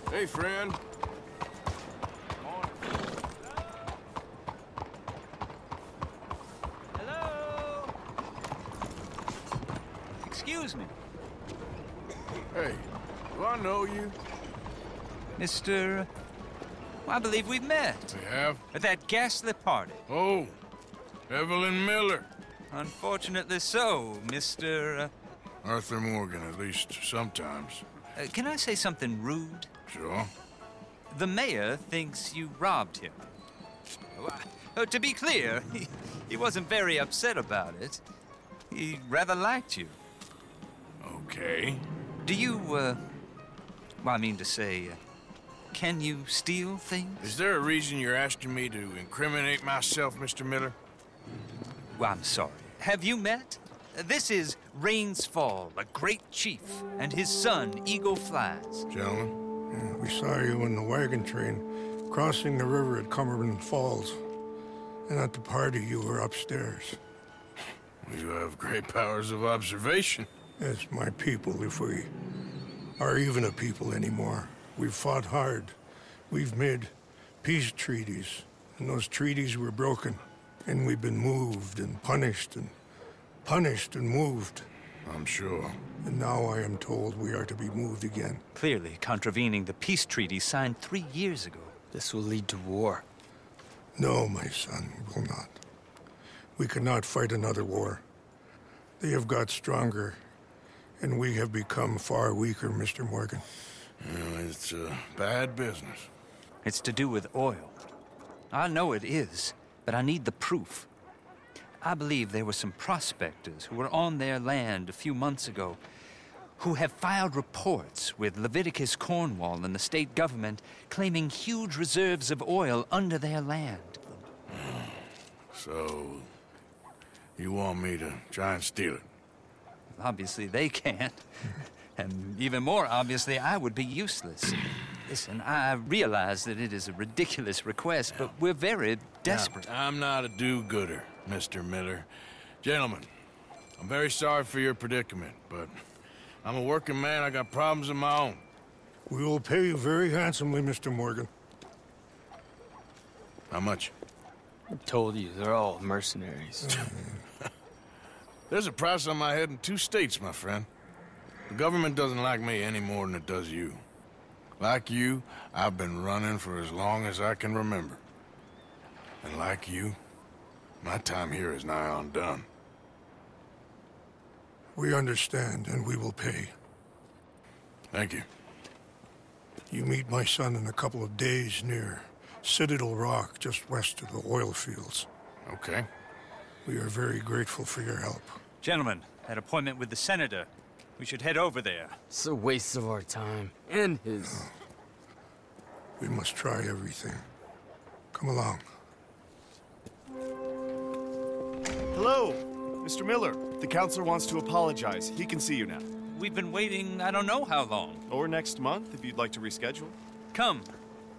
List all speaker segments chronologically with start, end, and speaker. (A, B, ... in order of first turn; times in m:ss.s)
0:00.1-0:00.8 A
0:07.0-0:07.9 B
0:10.2-0:10.9 B
0:12.5-0:14.2 A
0:15.4-0:16.1 B
0:17.0-0:18.2 B
0:18.1-0:18.6 A
0:18.7-0:20.0 B
0:20.1-0:20.6 A
0:21.3-0:22.3 A
0:22.7-0:25.1 B
0:25.6-0:27.8 A
0:28.2-0:29.7 B
0:29.9-0:30.3 A
0:31.1-0:33.2 B
0:34.1-0:38.0 B
0:38.7-0:40.0 B
0:41.0-0:41.9 A
0:42.2-0:43.0 B
0:44.0-0:45.0 B
0:45.7-0:47.4 B
0:47.2-0:50.8 A
0:52.0-0:58.9 B
0:58.9-0:59.4 A
0:59.7-1:04.2 C
1:05.1-1:07.0 C
1:08.0-1:10.3 A
1:10.6-1:12.1 C
1:13.0-1:15.8 C
1:16.3-1:22.7 C
1:23.4-1:24.7 C
1:25.1-1:25.8 A
1:26.0-1:28.4 C
1:28.5-1:31.7 B
1:31.9-1:33.0 D
1:34.0-1:35.6 C
1:36.6-1:38.0 C
1:39.0-1:40.2 C
1:41.0-1:43.4 C
1:44.0-1:46.1 A
1:46.6-1:47.8 B
1:48.5-1:50.9 B
1:51.8-1:55.8 B
1:56.6-2:04.2 B
2:04.5-2:05.0 A
2:05.5-2:06.3 A
2:07.4-2:09.1 A
2:09.9-2:19.7 B
2:19.3-2:22.1 A
2:22.6-2:23.1 A
2:23.8-2:25.7 A
2:26.4-2:28.4 A
2:29.1-2:31.3 C
2:33.5-2:33.9 A
2:34.7-2:36.9 D
2:36.6-2:37.2 C
2:38.5-2:40.7 A
2:41.5-2:43.8 A
2:44.6-2:48.0 A
2:49.2-2:50.0 A
2:50.8-2:52.5 A
2:54.8-2:56.5 C
2:57.9-2:58.3 A
2:59.7-3:05.1 C
3:05.5-3:05.9 A
3:06.6-3:08.4 C
3:08.6-3:12.0 B
3:12.1-3:14.5 D
3:16.0-3:17.2 C
3:18.1-3:18.6 C
3:21.9-3:25.9 E
3:26.1-3:28.0 B
3:28.1-3:30.0 E
3:30.3-3:30.7 B